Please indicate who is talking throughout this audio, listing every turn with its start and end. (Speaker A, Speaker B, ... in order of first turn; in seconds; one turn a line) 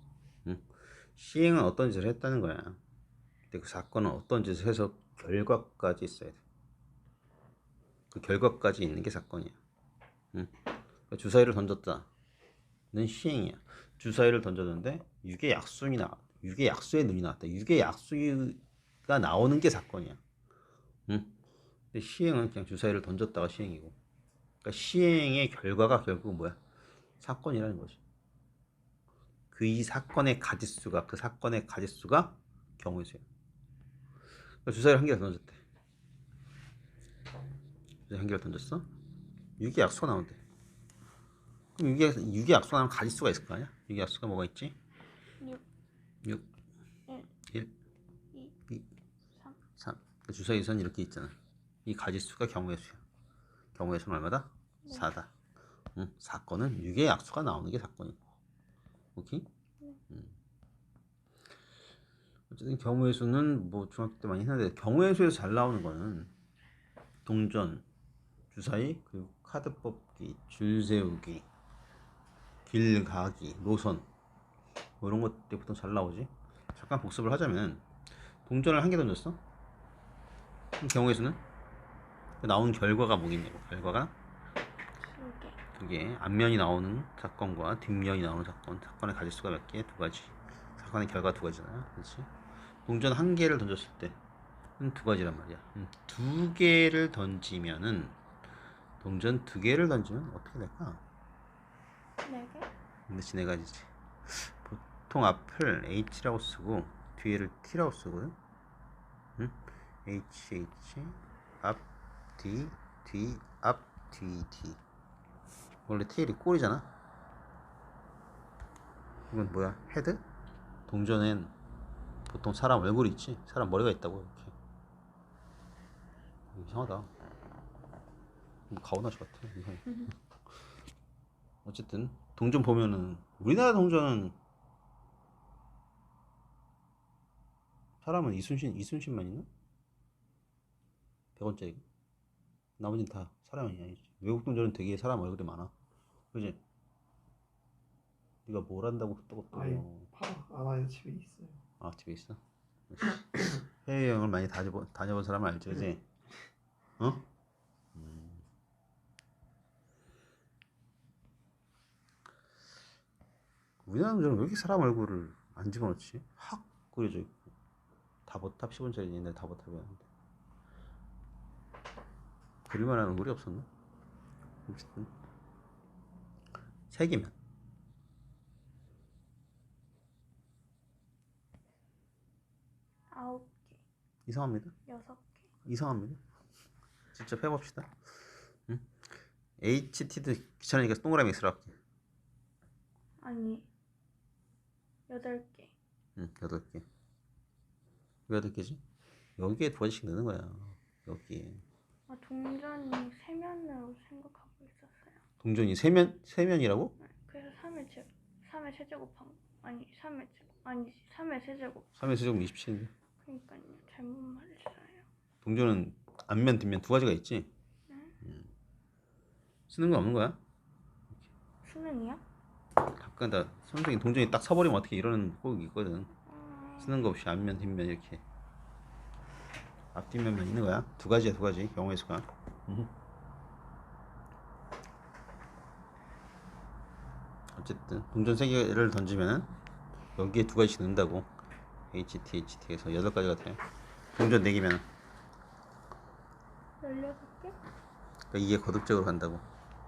Speaker A: 0.5-2.8
Speaker A: 3.5-6.4
Speaker A: 8.1-9.6
Speaker A: 11.1-12.1
Speaker A: 12.9-20.2
Speaker A: 21.1-21.3
Speaker A: 21.9-23.9
Speaker A: 24.6-26.6
Speaker A: 27.2-28.0
Speaker A: 29.5-33.2
Speaker A: 34.6-35.6
Speaker A: 38.1-38.9
Speaker A: 39.6-40.4
Speaker A: 41.8-44.8
Speaker A: 49.8-51.3
Speaker A: 51.9-53.0
Speaker A: 53.8-55.3
Speaker A: 56.0-58.2
Speaker A: 59.2-59.5
Speaker A: 60.1-60.4
Speaker A: 62.5-66.3
Speaker A: 67.2-67.8
Speaker A: 68.5-71.5
Speaker A: 72.7-74.1
Speaker A: 75.0-77.8
Speaker A: 78.5-79.4
Speaker A: 80.8-81.4
Speaker A: 82.4-84.1
Speaker B: 85.0-85.6
Speaker A: 85.8-92.3
Speaker A: 92.9-94.2
Speaker A: 94.8-98.2
Speaker A: 99.0-101.0
Speaker B: 102.2-102.7
Speaker A: 103.1-108.4
Speaker A: 109.4-111.8
Speaker A: 112.4-114.8
Speaker A: 115.9-116.9
Speaker A: 119.3-120.2
Speaker A: 120.9-121.5
Speaker A: 122.3-124.5
Speaker A: 126.5-127.1
Speaker A: 128.7-130.2
Speaker A: 131.7-134.4
Speaker A: 138.0-139.5
Speaker A: 141.4-141.8
Speaker A: 142.8-145.7
Speaker A: 146.3-146.6
Speaker A: 148.5-150.1
Speaker C: 149.5-151.6
Speaker A: 151.8-156.0
Speaker A: 157.0-157.2
Speaker A: 158.0-158.4
Speaker A: 163.8-167.5
Speaker A: 168.3-170.1
Speaker A: 172.7-173.7
Speaker A: 174.7-175.1
Speaker A: 176.9-177.3
Speaker B: 183.1-183.8
Speaker A: 184.3-184.7
Speaker B: 184.9-185.4
Speaker A: 185.7-186.2
Speaker A: 187.1-187.9
Speaker A: 189.6-191.8
Speaker B: 193.2-193.7
Speaker B: 195.1-195.7
Speaker A: 196.2-196.8
Speaker A: 198.3-198.8
Speaker A: 199.4-201.6
Speaker B: 202.1-205.2
Speaker A: 205.4-206.9
Speaker B: 207.0-212.0
Speaker A: 212.0-212.9
Speaker B: 213.2-215.1
Speaker A: 215.4-217.5
Speaker B: 217.9-218.1
Speaker A: 218.2-218.5
Speaker A: 219.7-220.4
Speaker B: 221.6-222.2
Speaker A: 222.9-226.1
Speaker B: 226.3-227.0
Speaker A: 226.8-228.2
Speaker A: 229.9-232.9
Speaker A: 237.6-239.5
Speaker A: 240.2-241.3
Speaker A: 241.9-243.6
Speaker A: 244.1-244.8
Speaker B: 246.8-247.6
Speaker A: 248.3-249.4